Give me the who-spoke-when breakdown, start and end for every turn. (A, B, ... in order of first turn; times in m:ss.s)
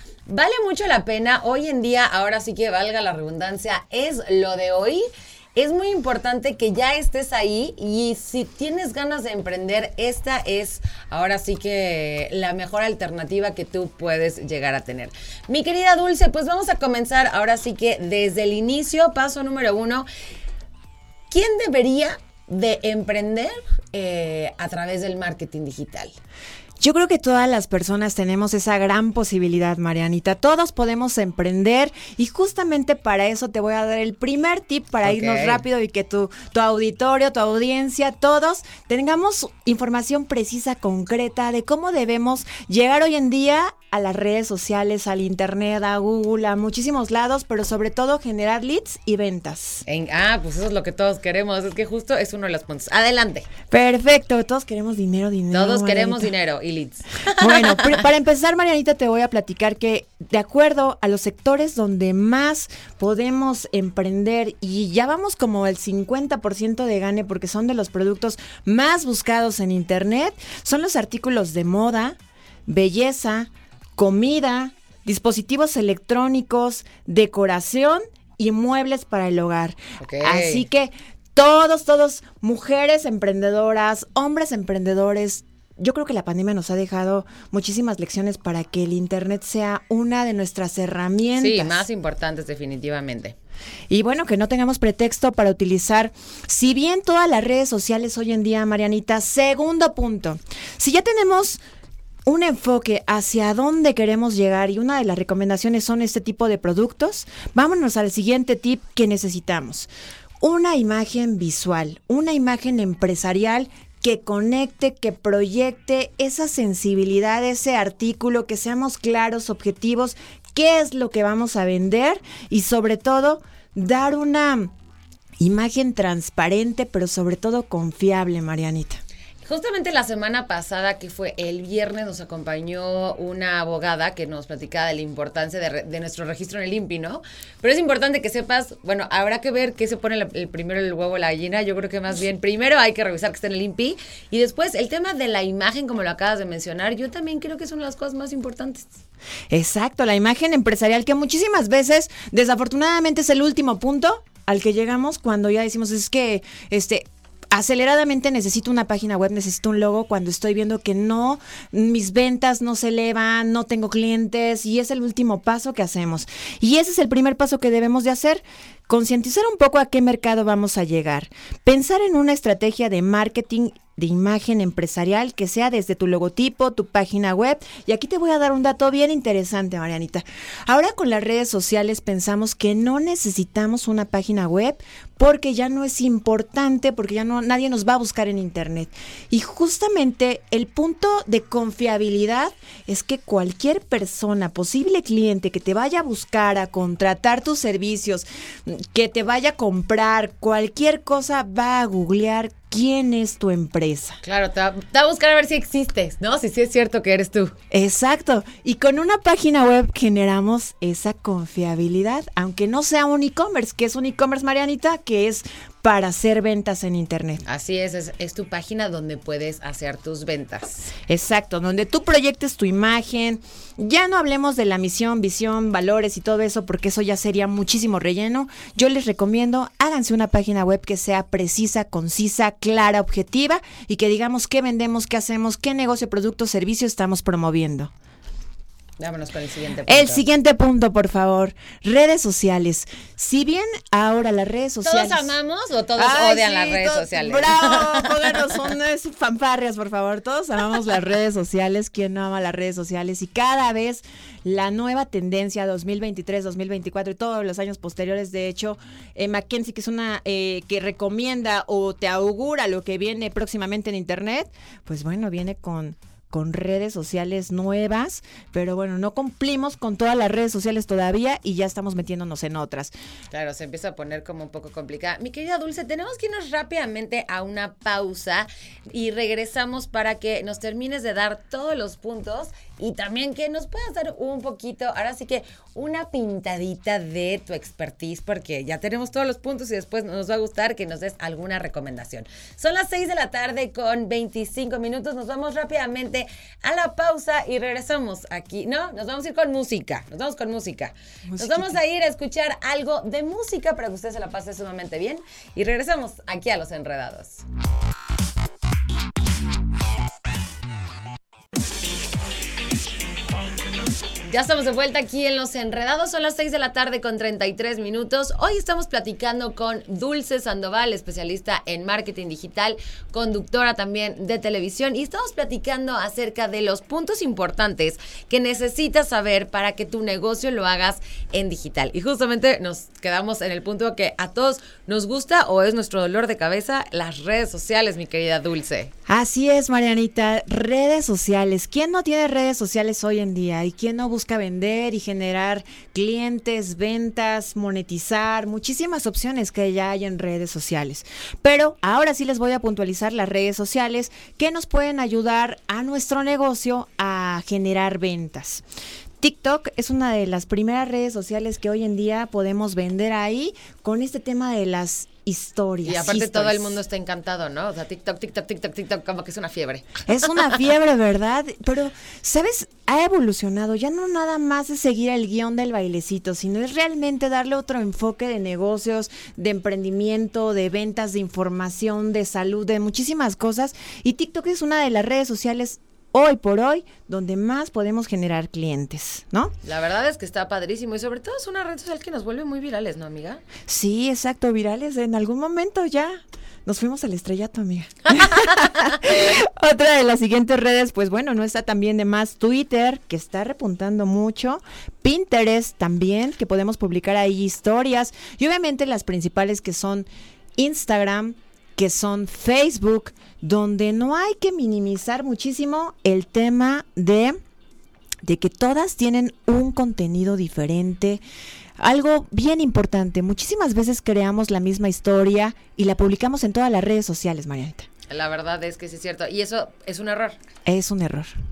0:00.3-0:20.1 A
0:21.3-0:26.1 A
0:26.8-0:49.8 B
0:35.0-0:35.6 A
0:49.8-0:53.5 A
0:53.7-0:56.3 B
0:55.5-0:58.0 A
0:57.4-1:31.8 B
1:20.0-1:20.6 A
1:31.4-1:33.4 A
1:33.9-1:41.6 B
1:42.3-1:49.9 B
1:50.4-2:04.7 B
2:05.4-2:09.0 B
2:09.4-2:28.9 A
2:29.5-3:24.2 B
3:24.2-3:27.5 A
3:27.7-3:37.4 B
3:37.4-3:40.9 A
3:41.1-3:57.9 B
3:59.0-4:00.2 A
3:59.9-4:05.3 B
4:04.8-4:08.3 A
4:06.0-4:32.9 B
4:33.3-5:07.4 A
5:01.3-5:01.8 B
5:14.2-5:38.9 A
5:39.1-5:58.6 B
5:59.2-6:06.8 B
6:05.8-6:10.0 A
6:10.1-6:29.5 B
6:29.6-6:33.4 A
6:33.7-6:57.4 B
6:58.2-7:01.2 B
7:01.8-7:07.9 B
7:08.1-7:10.4 A
7:10.6-7:11.3 B